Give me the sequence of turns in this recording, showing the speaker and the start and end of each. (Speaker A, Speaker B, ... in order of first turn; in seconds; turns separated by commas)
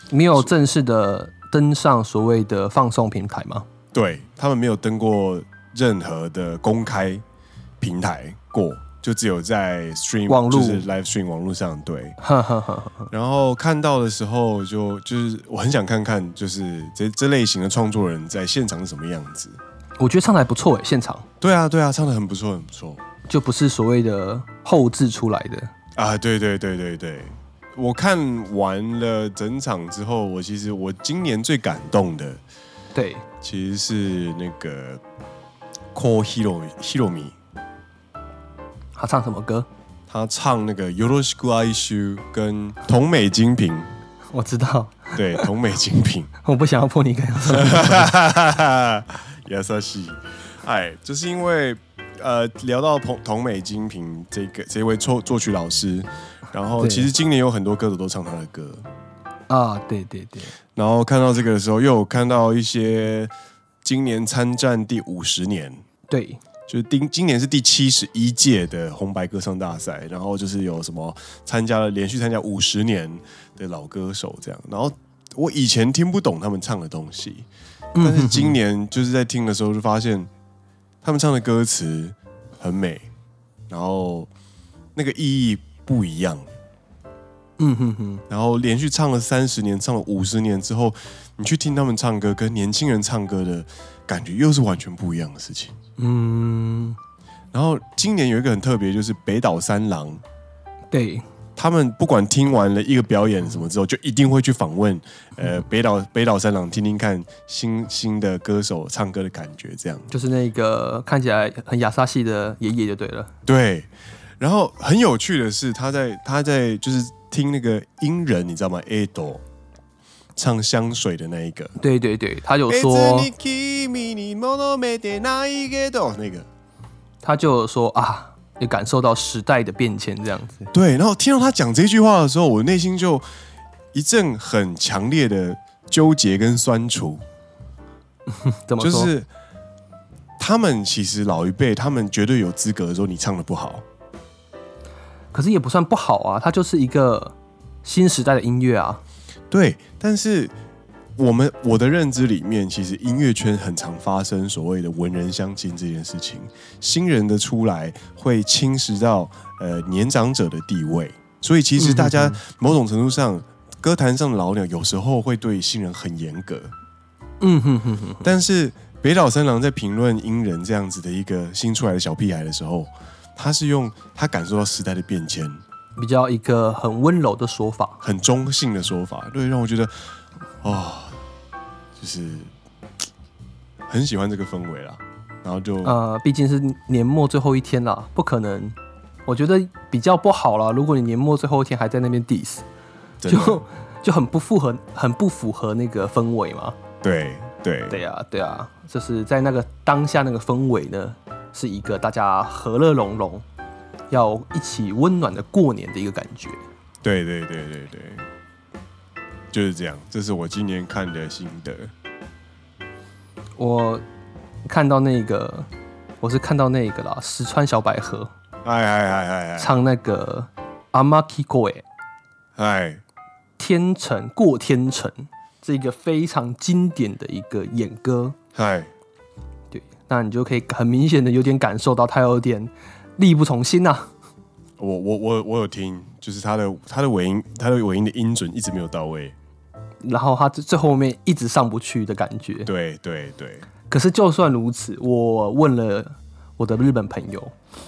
Speaker A: 0.1-3.6, Speaker B: 3.9-7.2, Speaker B: 7.8-12.2, Speaker A: 10.3-10.8, Speaker A: 12.2-13.1, Speaker B: 13.1-19.6, Speaker A: 20.0-21.2, Speaker B: 21.4-23.0, Speaker A: 23.3-25.7, Speaker B: 25.9-32.4, Speaker A: 32.9-33.2, Speaker B: 33.4-35.0, Speaker B: 35.9-37.3, Speaker A: 39.0-39.7, Speaker B: 40.1-44.0, Speaker A: 44.3-45.5, Speaker B: 45.1-46.3, Speaker A: 46.4-48.1, Speaker B: 47.5-58.8, Speaker A: 56.8-57.1, Speaker A: 59.5-60.5, Speaker B: 60.8-63.3, Speaker B: 63.8-65.8, Speaker A: 66.1-66.4, Speaker B: 66.7-77.5, Speaker A: 77.9-78.6, Speaker B: 78.0-80.3, Speaker B: 81.0-83.1, Speaker B: 83.7-84.3, Speaker B: 85.0-86.5, Speaker A: 87.6-88.2, Speaker B: 88.3-95.7, Speaker A: 96.0-97.0, Speaker B: 97.5-100.2, Speaker A: 100.9-101.2, Speaker B: 101.6-110.1, Speaker A: 110.1-113.3, Speaker B: 113.5-113.9, Speaker B: 114.4-119.4, Speaker B: 120.3-121.7, Speaker A: 121.8-123.3, Speaker B: 122.7-126.5, Speaker A: 127.2-130.7, Speaker B: 130.7-133.2, Speaker B: 133.9-137.2, Speaker A: 138.3-139.1, Speaker B: 138.8-139.3, Speaker B: 140.4-143.8, Speaker A: 145.3-149.0, Speaker B: 149.5-150.5, Speaker B: 151.2-166.7, Speaker A: 161.8-162.4, Speaker A: 167.4-168.3, Speaker B: 168.2-175.6, Speaker A: 176.0-178.0, Speaker B: 178.0-179.9, Speaker B: 180.6-181.2, Speaker B: 182.0-182.5, Speaker B: 183.9-185.9, Speaker A: 185.8-188.8, Speaker A: 189.3-192.6, Speaker B: 193.2-193.6, Speaker A: 193.3-196.8, Speaker B: 197.0-198.0, Speaker A: 197.9-203.4, Speaker A: 204.1-206.6, Speaker B: 207.0-208.2, Speaker B: 209.5-211.9, Speaker A: 213.6-214.0, Speaker A: 214.7-215.7, Speaker A: 216.2-218.3, Speaker B: 218.6-219.7, Speaker A: 219.6-221.8, Speaker B: 222.6-223.0, Speaker A: 223.6-228.3, Speaker B: 228.5-228.9, Speaker A: 229.7-234.1, Speaker B: 234.8-239.3, Speaker A: 240.0-242.7, Speaker B: 242.7-243.7, Speaker A: 243.9-247.5